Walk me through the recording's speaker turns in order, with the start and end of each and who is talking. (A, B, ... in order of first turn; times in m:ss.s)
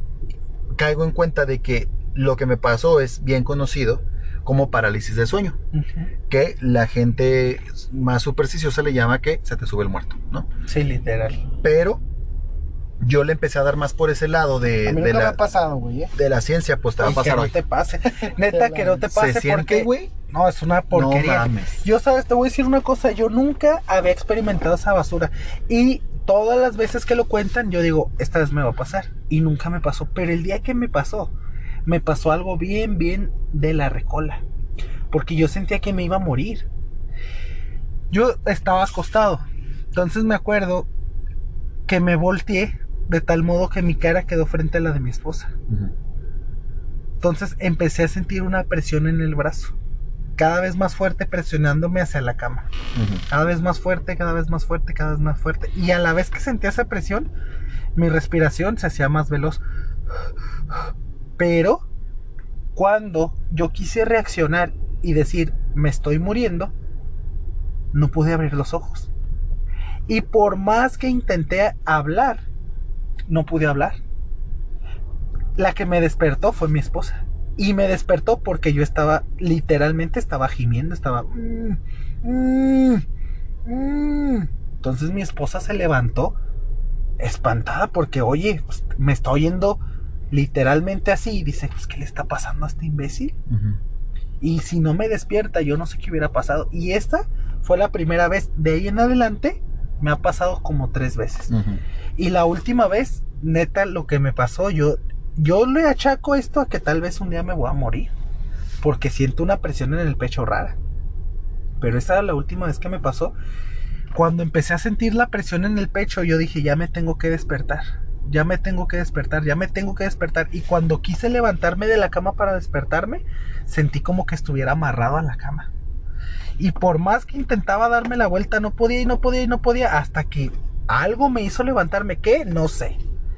0:00.8-0:05.6 A
0:05.7-0:06.1 B
0:06.3-0:10.5 A
0:10.7-0:11.4 B
0:11.6-0:12.0 A
0:13.0-0:15.4 A
0:14.9-0:16.1 C
0:16.2-0:17.5 A
0:17.0-0:31.3 B
0:18.2-0:19.1 C
0:19.1-0:20.1 A
0:20.9-0:21.8 A
0:31.9-0:34.4 B
0:35.1-0:36.7 B
0:38.1-0:39.4 B
0:39.9-0:40.9 B
0:41.9-0:45.5 B
0:47.2-0:49.7 B
0:50.4-0:52.7 B
0:53.0-0:53.2 A
0:53.3-0:57.3 B
0:58.0-0:59.6 B
1:01.4-1:01.8 B
1:02.8-1:06.7 B
1:07.9-1:09.1 B
1:10.1-1:12.4 B
1:13.3-1:14.0 B
1:15.6-1:23.0 B
1:23.6-1:26.4 B
1:27.2-1:29.8 B
1:30.3-1:33.4 B
1:33.5-1:33.8 A
1:34.4-1:41.5 B
1:41.5-1:41.8 A
1:42.2-1:48.1 B
1:48.8-1:50.8 B
1:51.8-1:53.3 B
1:54.1-2:05.7 B
2:06.6-2:13.0 B